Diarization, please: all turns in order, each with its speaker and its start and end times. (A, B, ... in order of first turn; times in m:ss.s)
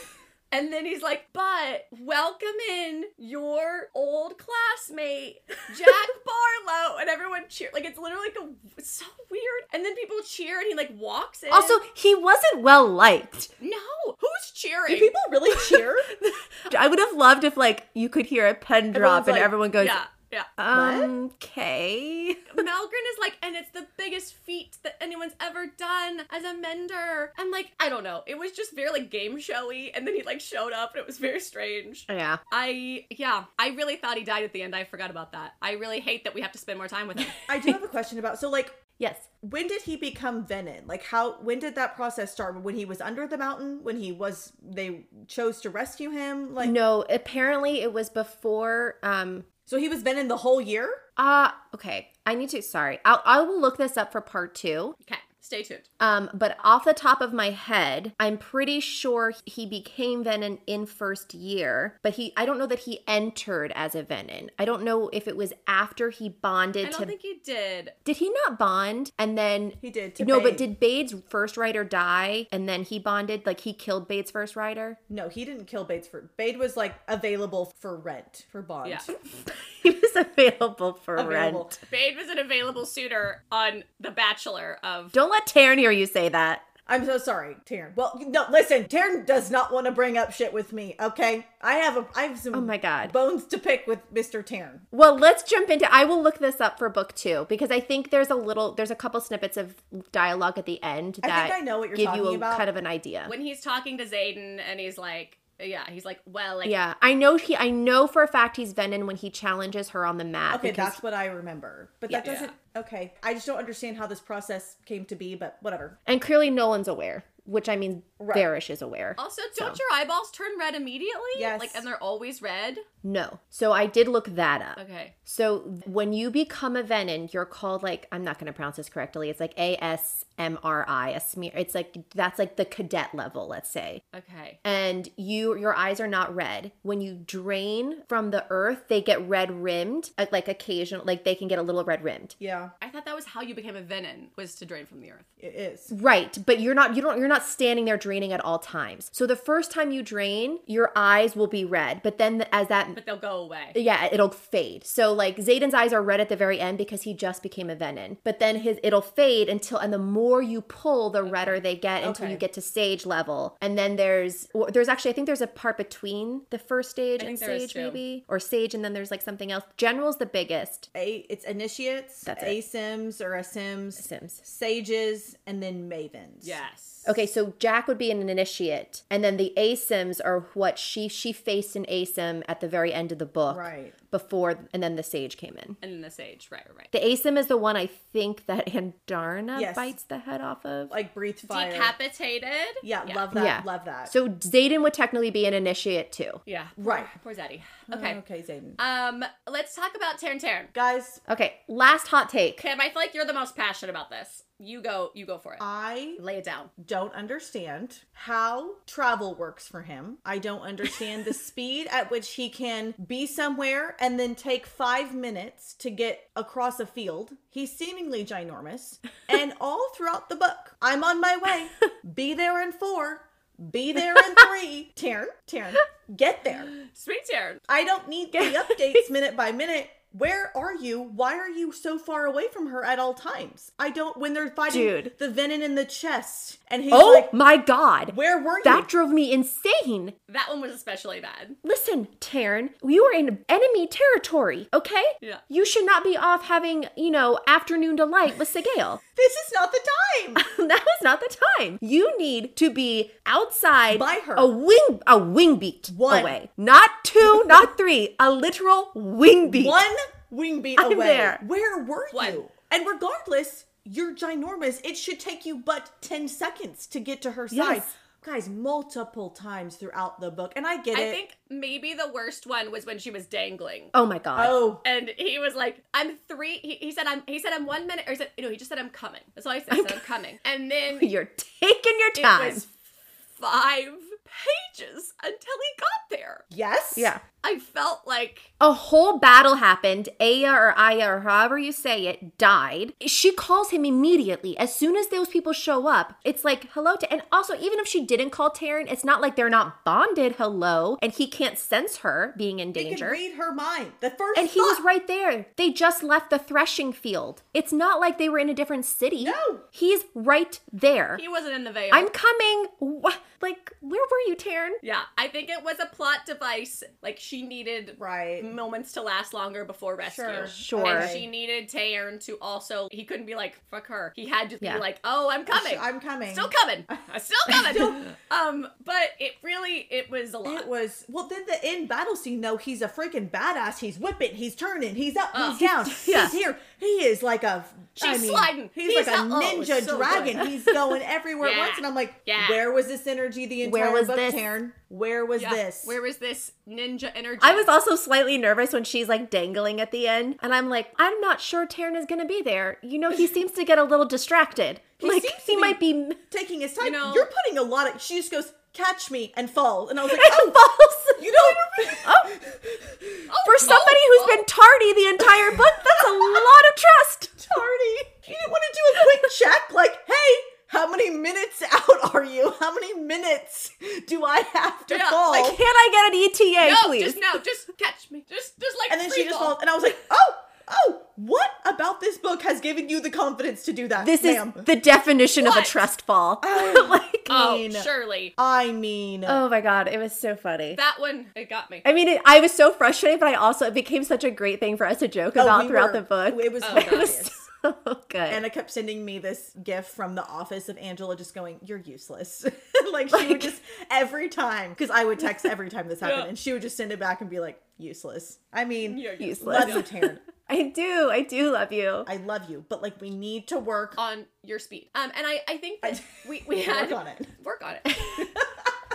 0:00.5-0:11.8 A
0:11.5-0:13.5 B
0:13.6-0:15.1 A
0:14.9-0:16.1 C
0:15.6-0:20.0 B
0:18.9-0:19.5 C
0:19.8-0:20.5 A
0:20.6-0:22.6 B
0:20.7-0:21.1 C
0:22.5-0:37.4 A
0:32.1-0:32.4 B
0:37.4-0:38.8 C
0:39.0-0:39.3 B
0:39.4-0:46.8 C
0:46.6-0:49.4 B
0:49.7-0:51.0 C
0:51.2-0:55.0 B
0:55.0-0:55.9 A
0:56.0-1:07.1 B
1:06.8-1:08.0 A
1:08.0-1:15.0 B
1:09.8-1:10.6 C
1:15.1-1:19.1 C
1:18.8-1:19.1 A
1:19.5-1:21.8 B
1:21.1-1:21.8 C
1:21.9-1:25.2 A
1:25.1-1:26.7 B
1:26.9-1:34.8 C
1:32.5-1:33.1 B
1:34.9-1:43.3 B
1:41.2-1:42.7 C
1:43.2-1:46.8 A
1:46.6-1:51.0 B
1:50.5-1:56.0 C
1:52.2-1:52.5 A
1:56.1-1:59.8 B
1:58.2-1:58.5 C
1:59.2-2:02.8 A
2:01.3-2:01.8 C
2:03.0-2:14.0 B
2:04.8-2:05.1 A
2:14.1-2:14.6 A
2:14.6-2:22.3 B
2:22.4-2:22.7 C
2:22.8-2:25.3 A
2:25.4-2:25.9 C
2:25.9-2:33.0 B
2:32.9-2:33.8 A
2:33.7-2:50.9 B
2:41.2-2:41.6 A
2:42.0-2:42.4 C
2:47.2-2:48.0 A
2:50.9-2:56.6 C
2:52.2-2:52.6 B
2:54.0-2:54.4 B
2:56.4-2:57.2 A
2:57.0-3:05.8 B
3:03.5-3:04.0 C
3:05.8-3:06.9 A
3:06.9-3:10.9 B
3:09.5-3:09.9 C
3:10.9-3:11.9 C
3:11.4-3:13.2 A
3:12.8-3:14.1 C
3:13.3-3:16.4 B
3:16.4-3:18.2 A
3:16.8-3:17.1 C
3:17.9-3:18.8 C
3:18.8-3:20.7 A
3:20.7-3:21.2 C
3:21.3-3:22.6 B
3:22.6-3:25.6 A
3:25.6-3:26.2 C
3:26.2-3:26.7 A
3:26.8-3:46.7 C
3:46.8-3:47.6 A
3:47.7-3:57.3 C
3:48.4-3:49.0 B
3:54.7-3:55.1 B
3:56.9-4:00.1 B
3:58.1-3:58.9 C
4:00.3-4:01.6 A
4:01.6-4:09.0 B
4:09.2-4:10.4 C
4:10.4-4:19.8 B
4:13.9-4:14.5 C
4:15.9-4:16.4 C
4:17.2-4:17.6 C
4:19.4-4:31.2 C
4:20.8-4:21.4 B
4:22.1-4:22.4 A
4:27.5-4:27.9 B
4:30.9-4:33.9 A
4:33.9-4:34.6 B
4:34.3-4:34.8 C
4:34.8-4:41.1 A
4:39.7-4:40.0 B
4:40.9-4:42.6 B
4:42.2-4:46.4 A
4:46.5-4:47.1 C
4:46.9-4:47.2 B
4:47.4-4:48.5 A
4:48.6-5:03.2 B
5:02.7-5:04.8 C
5:04.3-5:11.2 B
5:09.2-5:09.6 C
5:11.1-5:12.1 A
5:11.9-5:14.8 B
5:14.8-5:30.7 A
5:18.0-5:18.5 C
5:20.0-5:21.3 C
5:20.5-5:21.1 B
5:25.5-5:28.0 C
5:30.4-5:46.0 C
5:35.3-5:35.6 A
5:35.6-5:36.4 B
5:38.0-5:40.5 A
5:41.4-5:42.6 A
5:43.6-5:44.4 B
5:45.4-5:47.7 A
5:47.4-5:56.2 B
5:55.0-6:03.3 C
5:56.8-5:57.3 A
6:00.0-6:02.4 B
6:03.3-6:04.4 A
6:03.4-6:07.4 B
6:05.2-6:06.5 C
6:07.4-6:15.6 C
6:14.9-6:15.3 A
6:15.3-6:17.2 B
6:16.6-6:19.6 A
6:18.9-6:24.6 C
6:24.0-6:27.3 B
6:25.4-6:25.9 A
6:26.4-6:29.4 C
6:27.3-6:28.3 A
6:29.2-6:30.8 B
6:30.7-6:31.8 A
6:31.8-6:38.4 B
6:35.3-6:37.4 C
6:36.6-6:37.1 A
6:38.3-6:50.2 C
6:43.1-6:43.5 B
6:46.0-6:46.3 A
6:48.8-6:49.9 A
6:49.2-6:52.1 B
6:52.0-6:54.0 C
6:54.0-6:58.2 A
6:55.8-6:57.3 C
6:58.1-6:58.8 C